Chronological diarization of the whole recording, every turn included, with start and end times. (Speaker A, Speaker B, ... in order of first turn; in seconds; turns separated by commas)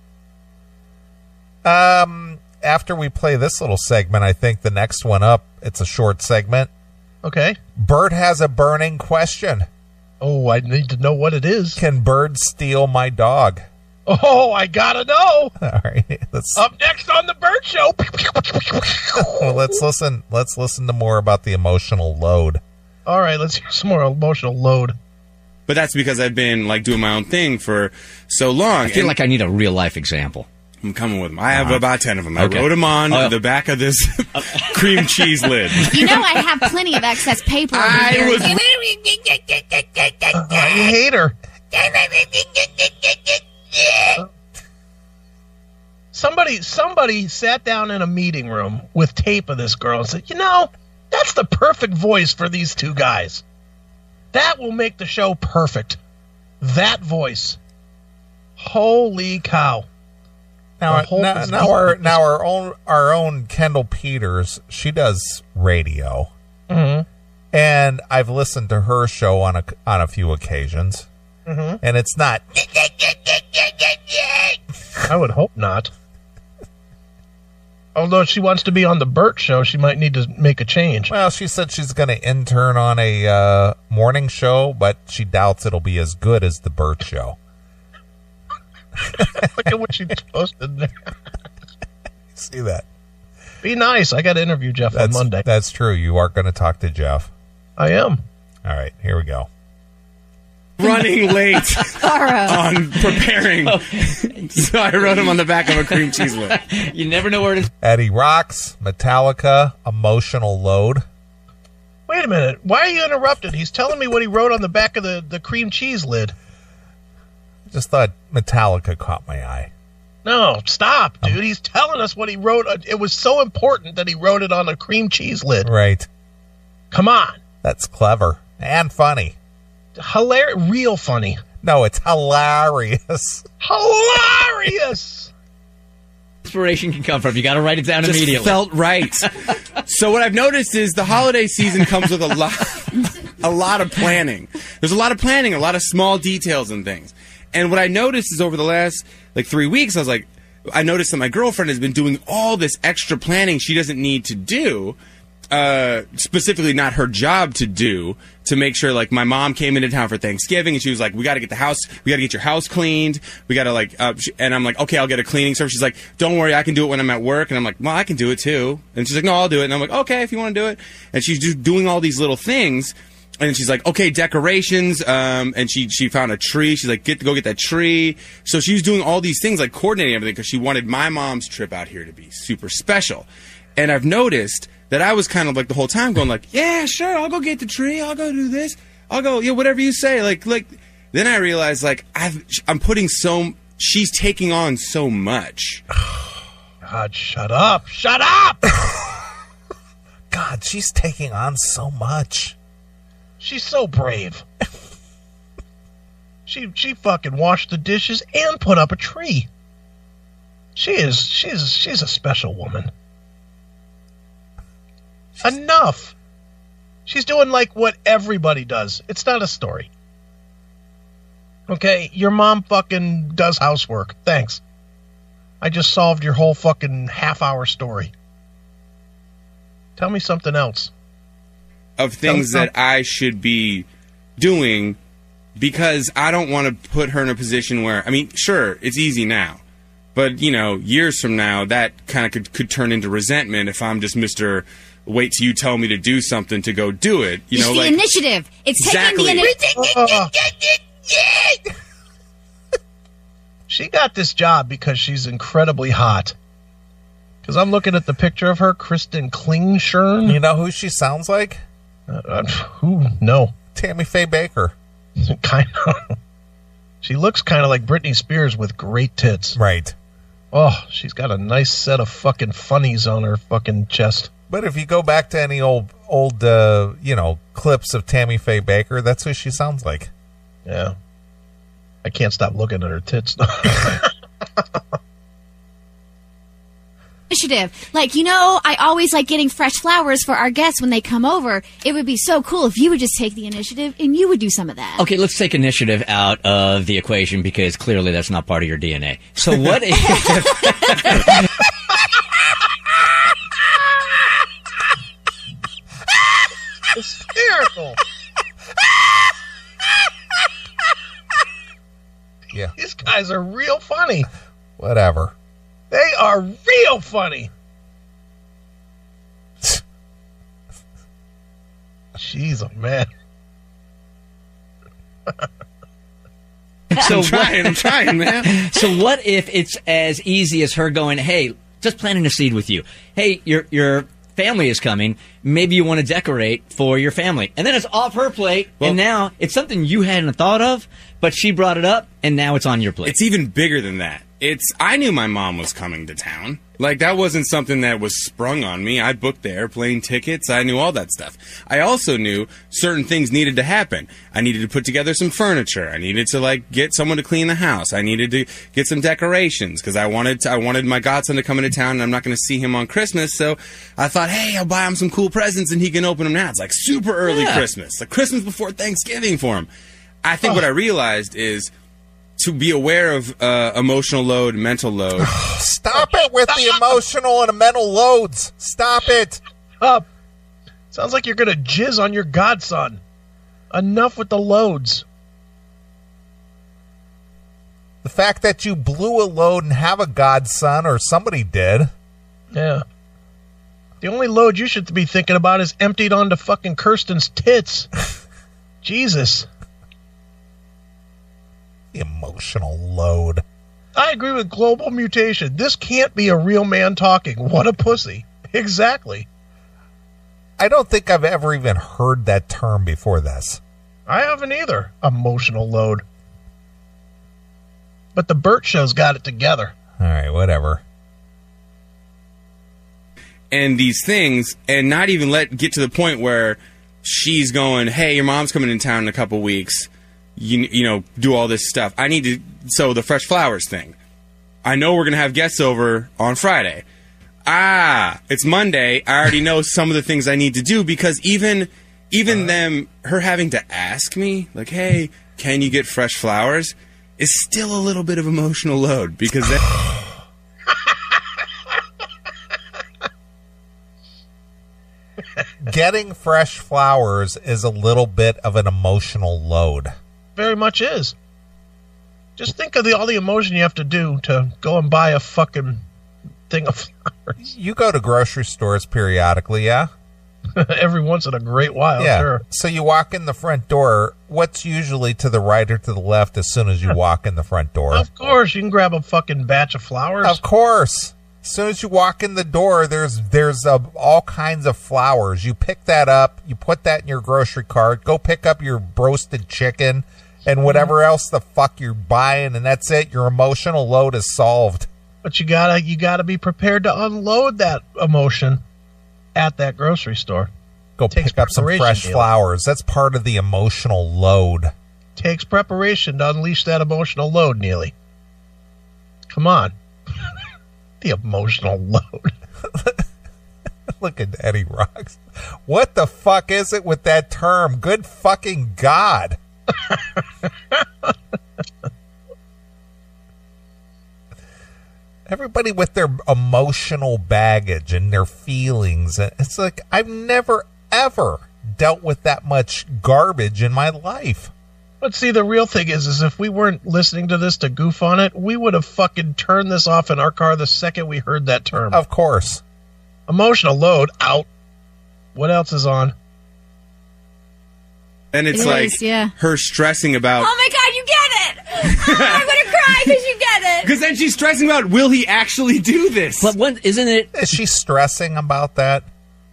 Speaker A: 1.6-6.7, Speaker B: 7.2-7.6, Speaker A: 7.8-9.7, Speaker B: 10.2-11.8, Speaker A: 11.8-13.7, Speaker B: 14.1-15.6, Speaker A: 15.6-16.6, Speaker B: 16.6-19.6, Speaker A: 19.1-22.6, Speaker B: 23.1-25.0, Speaker C: 25.7-29.2, Speaker D: 28.8-30.5, Speaker C: 30.8-36.2, Speaker D: 31.5-31.8, Speaker D: 32.4-33.4, Speaker D: 34.4-36.2, Speaker E: 35.9-38.6, Speaker C: 37.7-38.8, Speaker C: 39.5-39.9, Speaker B: 40.3-41.4, Speaker B: 46.1-53.4, Speaker B: 54.3-56.0, Speaker B: 56.6-57.6, Speaker B: 58.6-59.9, Speaker A: 60.8-66.3, Speaker B: 60.9-62.2, Speaker B: 66.7-67.1, Speaker A: 67.5-71.1, Speaker B: 71.5-71.8, Speaker A: 71.8-74.6, Speaker B: 75.1-75.9, Speaker B: 78.0-81.1, Speaker A: 81.1-87.4, Speaker B: 89.2-91.1, Speaker A: 92.3-92.8, Speaker B: 93.6-95.5, Speaker A: 94.9-97.3, Speaker B: 97.8-98.2, Speaker A: 98.7-99.5, Speaker C: 100.8-106.6, Speaker E: 102.0-102.6, Speaker D: 103.0-107.7, Speaker A: 107.8-111.0, Speaker B: 112.1-116.3, Speaker A: 117.7-119.7, Speaker B: 120.2-125.7, Speaker A: 125.6-126.1, Speaker B: 126.9-127.4, Speaker A: 127.6-129.4, Speaker B: 130.0-131.4, Speaker A: 131.6-133.4, Speaker B: 133.6-135.3, Speaker D: 136.4-138.7, Speaker C: 138.0-155.0, Speaker C: 155.5-195.8, Speaker B: 196.8-198.7, Speaker A: 198.7-199.2, Speaker A: 200.3-202.6, Speaker B: 203.4-204.4, Speaker B: 206.5-209.5, Speaker B: 210.8-212.9, Speaker B: 215.4-216.1, Speaker B: 217.1-219.9, Speaker B: 221.7-224.6, Speaker B: 225.6-228.1, Speaker B: 230.0-230.9, Speaker C: 232.0-233.9, Speaker B: 232.3-232.7, Speaker C: 234.4-235.0, Speaker C: 235.6-239.6, Speaker C: 240.2-248.0, Speaker E: 247.5-250.1, Speaker C: 248.8-249.6, Speaker B: 249.8-250.3, Speaker B: 253.7-256.4, Speaker B: 257.4-260.4, Speaker A: 260.2-261.6, Speaker B: 262.1-263.5, Speaker A: 263.8-264.8, Speaker B: 265.2-266.1, Speaker B: 267.0-269.6, Speaker A: 269.6-269.9, Speaker B: 270.5-274.3, Speaker A: 274.5-280.1, Speaker B: 280.7-280.9, Speaker B: 282.0-284.1, Speaker E: 287.3-295.0, Speaker D: 295.0-301.5, Speaker B: 306.9-308.0, Speaker B: 312.8-314.3, Speaker A: 314.8-315.4, Speaker B: 315.9-317.5, Speaker B: 322.2-323.1, Speaker D: 326.9-343.2, Speaker C: 326.9-328.6, Speaker C: 343.0-369.7, Speaker D: 367.2-367.6, Speaker C: 370.2-371.7, Speaker C: 372.4-375.4, Speaker A: 375.2-379.4, Speaker B: 380.9-383.0, Speaker B: 383.7-385.1, Speaker A: 388.0-391.9, Speaker B: 392.5-392.8, Speaker B: 394.0-397.9, Speaker B: 398.8-399.5, Speaker A: 401.9-403.4, Speaker B: 403.9-409.3, Speaker A: 410.6-413.6, Speaker B: 414.1-416.0, Speaker B: 418.1-419.7, Speaker A: 420.0-420.8, Speaker C: 423.5-434.0, Speaker C: 434.6-436.8, Speaker C: 437.5-449.8, Speaker A: 455.6-459.9, Speaker B: 460.4-461.1, Speaker B: 462.4-465.8, Speaker B: 466.5-467.4, Speaker A: 467.4-469.9, Speaker B: 470.6-472.4, Speaker A: 472.0-478.3, Speaker B: 477.9-480.4, Speaker A: 480.2-494.9, Speaker B: 495.2-498.6, Speaker B: 499.4-500.5, Speaker A: 501.0-504.7, Speaker B: 501.1-502.3, Speaker B: 505.2-507.9, Speaker B: 509.3-509.8, Speaker B: 511.0-512.3, Speaker A: 512.7-513.0, Speaker A: 513.9-519.4, Speaker A: 525.3-534.5, Speaker B: 535.0-542.0, Speaker A: 541.9-542.6, Speaker B: 543.3-544.5, Speaker B: 545.4-546.1, Speaker C: 548.3-550.5, Speaker E: 548.5-549.3, Speaker E: 550.4-553.9, Speaker C: 551.9-553.1, Speaker C: 553.8-556.5, Speaker D: 556.4-557.4, Speaker A: 557.3-559.1